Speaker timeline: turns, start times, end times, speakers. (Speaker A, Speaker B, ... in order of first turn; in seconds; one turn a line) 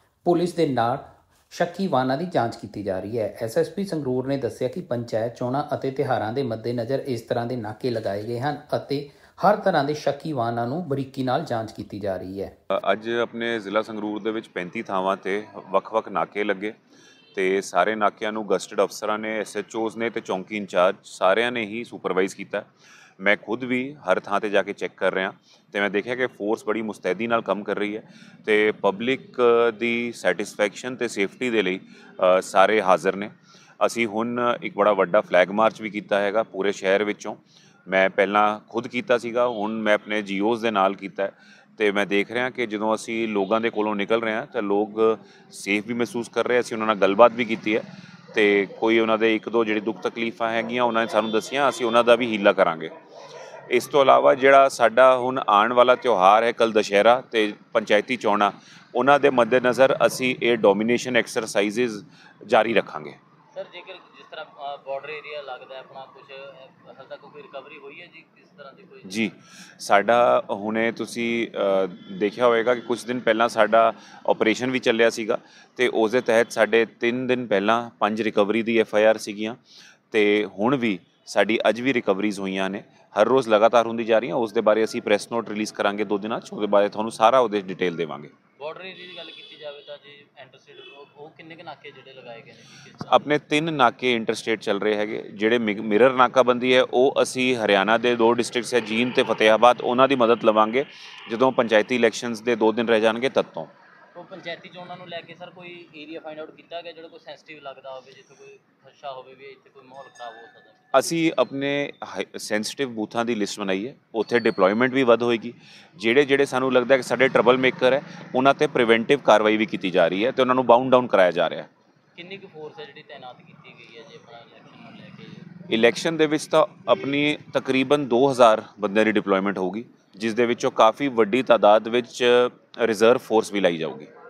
Speaker A: 0.2-12.5
Speaker B: 12.7-16.8
Speaker B: 17.3-22.7
Speaker B: 23.2-52.9
Speaker B: 53.7-63.2
Speaker C: 63.5-69.3
Speaker B: 69.0-79.6
Speaker B: 80.1-88.3
Speaker C: 88.6-93.3
Speaker B: 93.0-103.7
Speaker C: 104.2-111.2
Speaker B: 110.9-121.7
Speaker C: 122.2-125.5
Speaker B: 125.7-134.1